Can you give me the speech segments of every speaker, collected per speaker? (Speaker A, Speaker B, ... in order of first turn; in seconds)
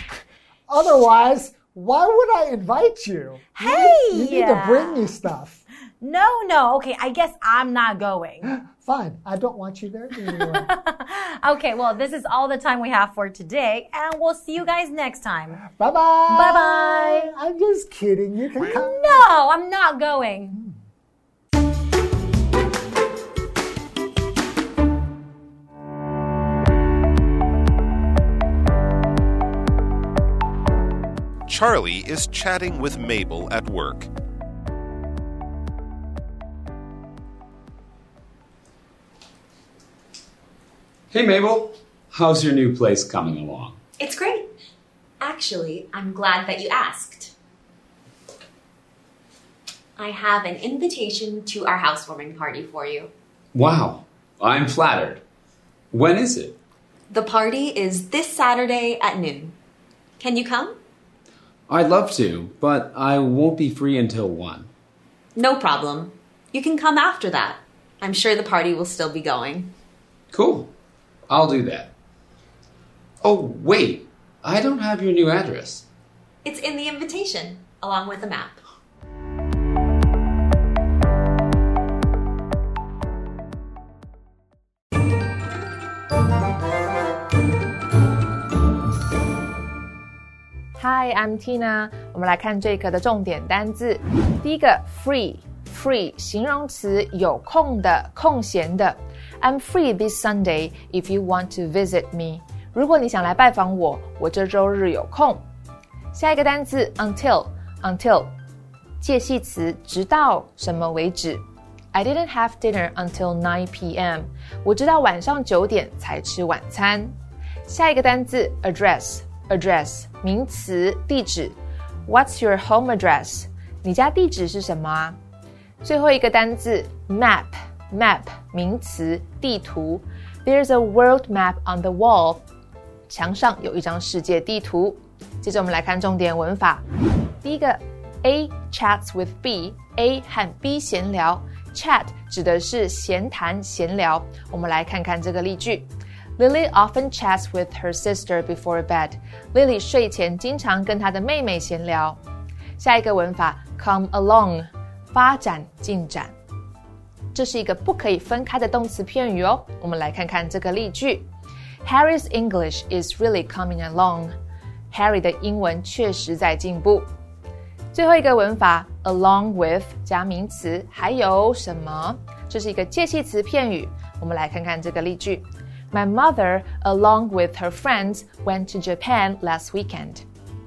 Speaker A: 0.7-5.6, 8.4-10.7, 15.6-19.2
Speaker B: 3.6-5.2, 6.0-8.5, 10.3-15.6, 16.3-17.3, 18.6-20.6
Speaker C: 31.5-34.1
Speaker D: 41.1-43.8, 53.5-55.2, 55.9-56.6, 61.7-64.7, 70.3-70.7, 71.3-71.9, 73.2-75.9
Speaker E: 44.0-44.5, 45.2-47.3, 50.0-53.1, 57.1-59.5, 60.2-60.8, 65.4-69.7, 76.5-78.6
Speaker F: 90.8-105.4, 106.1-108.3, 109.0-117.2, 117.7-125.2, 125.8-132.4, 133.1-136.8, 137.4-145.9, 146.4-152.2, 152.8-156.3, 157.3-161.3, 161.8-164.3, 164.9-167.1, 167.9-180.2